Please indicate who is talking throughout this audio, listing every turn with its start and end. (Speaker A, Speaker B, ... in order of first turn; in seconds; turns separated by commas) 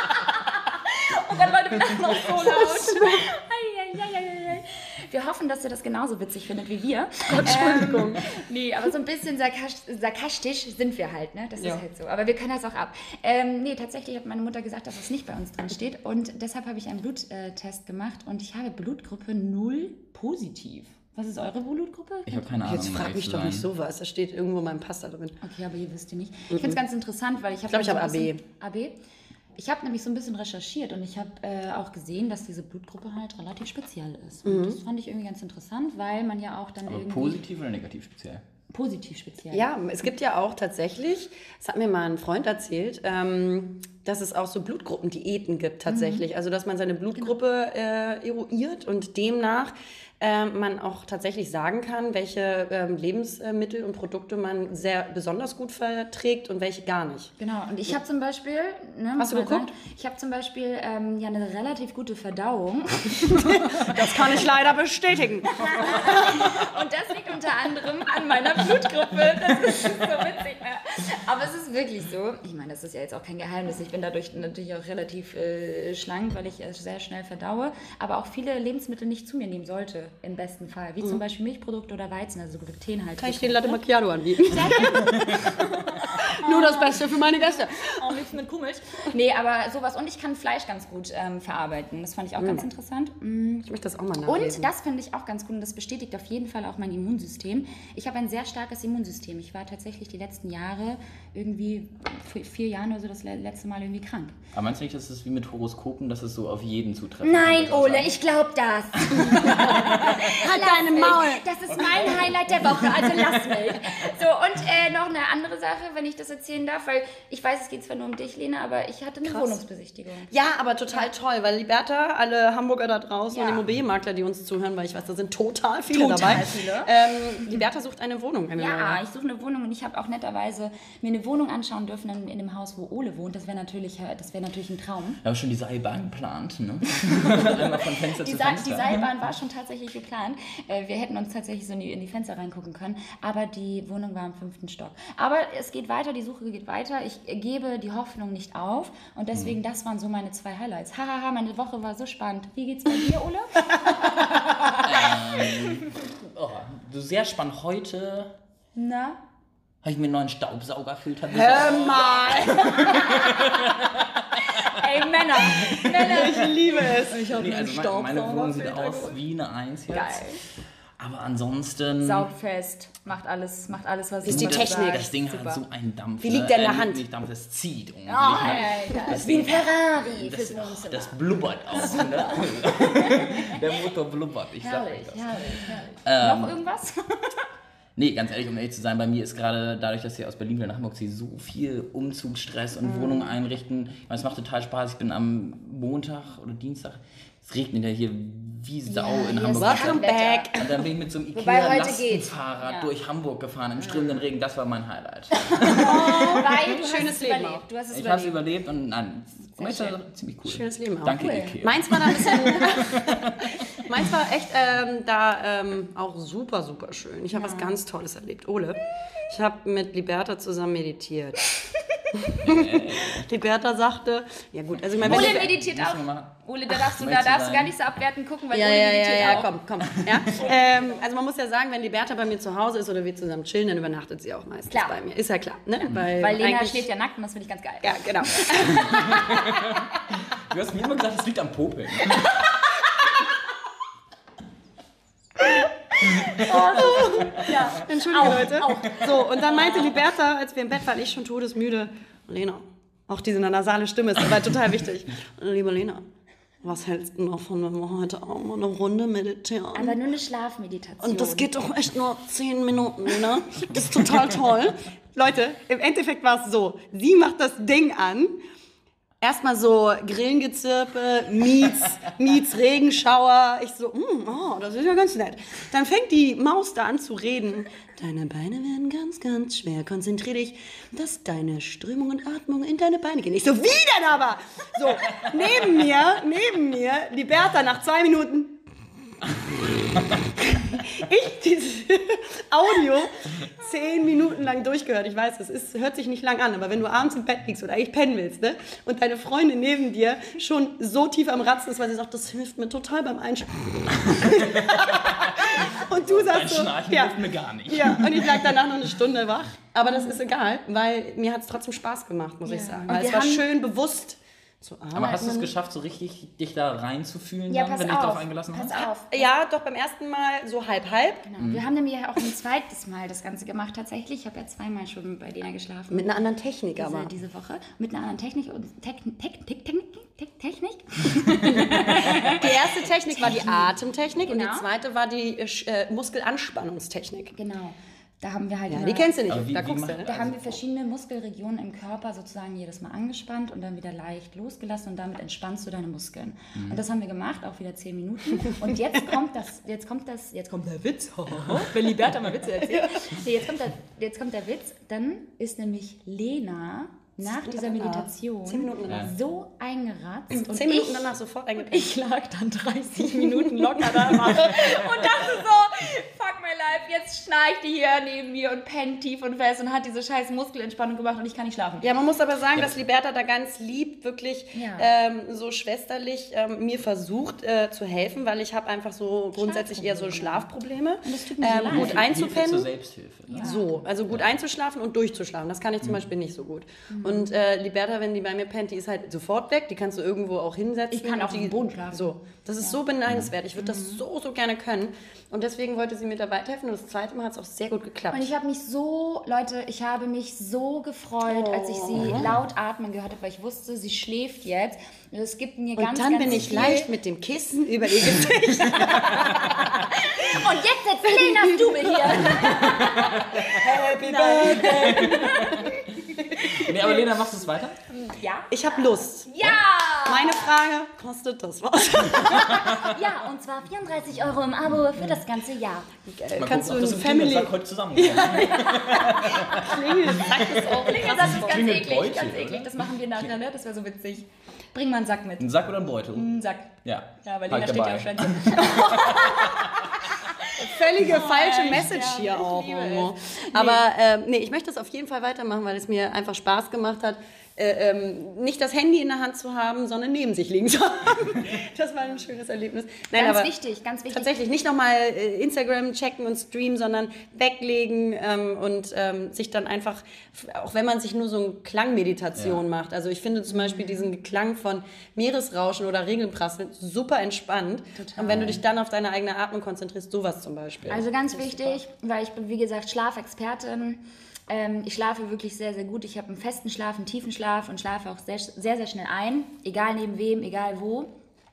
Speaker A: 0.5-22.5, Speaker B: 2.4-3.2, Speaker B: 7.3-8.2, Speaker C: 22.3-23.7, Speaker B: 22.6-25.4, Speaker A: 25.4-29.0, Speaker B: 26.5-26.8, Speaker B: 27.7-28.4, Speaker A: 29.6-37.4, Speaker B: 34.5-34.8, Speaker C: 36.9-38.4, Speaker A: 38.7-39.7, Speaker B: 39.5-57.3, Speaker A: 45.9-46.2, Speaker A: 57.4-64.0, Speaker B: 59.2-59.7, Speaker B: 63.3-66.4, Speaker A: 65.5-83.8, Speaker B: 83.2-88.2, Speaker A: 84.4-93.7, Speaker B: 92.4-92.6, Speaker B: 93.7-94.7, Speaker A: 94.3-104.4, Speaker C: 104.5-108.1, Speaker A: 107.2-120.3, Speaker B: 109.1-112.2, Speaker C: 109.4-110.3, Speaker C: 111.7-113.8, Speaker B: 119.3-119.6, Speaker B: 120.3-129.0, Speaker A: 123.3-123.6, Speaker A: 125.9-126.9, Speaker C: 126.1-126.5, Speaker A: 128.6-135.2, Speaker C: 135.2-139.1, Speaker A: 138.2-155.8, Speaker C: 154.8-158.3, Speaker A: 158.8-159.2, Speaker C: 159.8-164.8, Speaker B: 161.3-163.0, Speaker A: 162.0-163.8, Speaker A: 164.4-169.2, Speaker B: 165.7-168.7, Speaker C: 167.2-170.3, Speaker A: 169.9-170.4, Speaker C: 171.0-172.3, Speaker A: 172.0-175.6, Speaker B: 174.2-175.1, Speaker C: 174.3-185.4, Speaker B: 176.2-177.0, Speaker A: 178.1-181.2, Speaker A: 181.7-183.6, Speaker A: 184.6-187.4, Speaker C: 186.1-186.6, Speaker C: 188.0-206.1, Speaker A: 192.8-193.3, Speaker A: 198.9-200.7, Speaker B: 199.5-200.8, Speaker A: 201.3-202.9, Speaker A: 205.4-208.4, Speaker B: 205.8-207.6, Speaker C: 207.9-213.6, Speaker A: 209.6-210.0, Speaker B: 210.4-213.1, Speaker A: 211.2-213.0, Speaker B: 213.7-221.6, Speaker A: 217.3-217.8, Speaker B: 222.1-225.5, Speaker C: 222.4-223.3, Speaker C: 224.9-227.8, Speaker A: 225.0-231.0, Speaker B: 228.5-236.8, Speaker A: 234.7-235.0, Speaker A: 235.9-239.8, Speaker B: 237.8-238.8, Speaker C: 238.8-242.4, Speaker A: 242.0-242.8, Speaker A: 245.9-250.0, Speaker B: 246.7-256.1, Speaker B: 256.6-260.0, Speaker A: 259.7-261.5, Speaker B: 261.0-268.4, Speaker B: 269.2-288.6, Speaker B: 290.4-315.5, Speaker C: 304.1-308.6, Speaker A: 312.4-313.4, Speaker C: 314.9-318.9, Speaker A: 317.5-319.3, Speaker B: 318.8-321.3, Speaker A: 321.3-326.1, Speaker B: 325.9-327.1, Speaker A: 326.8-333.8, Speaker B: 332.2-337.4, Speaker A: 334.3-334.7, Speaker A: 337.4-339.1, Speaker B: 338.7-340.1, Speaker C: 339.3-340.4, Speaker A: 340.0-371.9, Speaker B: 351.4-351.7, Speaker B: 352.6-353.1, Speaker B: 357.4-359.1, Speaker B: 360.3-361.9, Speaker B: 363.0-364.8, Speaker B: 371.8-382.7, Speaker A: 374.6-374.9, Speaker A: 379.4-380.5, Speaker A: 381.0-382.1, Speaker C: 381.7-384.2, Speaker A: 383.3-383.8, Speaker B: 383.4-398.3, Speaker A: 386.9-387.3, Speaker A: 390.9-392.1, Speaker A: 393.6-394.0, Speaker A: 398.1-406.9, Speaker B: 401.3-402.3, Speaker C: 402.1-402.4, Speaker B: 405.8-410.4, Speaker C: 406.3-406.7, Speaker A: 408.6-417.0, Speaker C: 409.1-409.6, Speaker B: 411.0-412.5, Speaker C: 412.4-413.6, Speaker B: 413.5-416.5, Speaker C: 415.2-415.7, Speaker C: 416.4-417.8, Speaker A: 417.9-420.6, Speaker B: 418.5-419.3, Speaker B: 420.1-422.8, Speaker A: 422.2-425.9, Speaker B: 426.1-431.6, Speaker C: 426.3-433.3, Speaker A: 428.4-435.5, Speaker C: 435.4-436.3, Speaker A: 436.1-436.7, Speaker C: 436.8-439.9, Speaker A: 437.2-443.8, Speaker B: 440.6-453.5, Speaker A: 453.1-454.3, Speaker B: 454.1-471.8, Speaker C: 462.4-462.6, Speaker A: 463.5-464.1, Speaker A: 468.0-468.6, Speaker C: 468.3-468.6, Speaker A: 470.9-481.1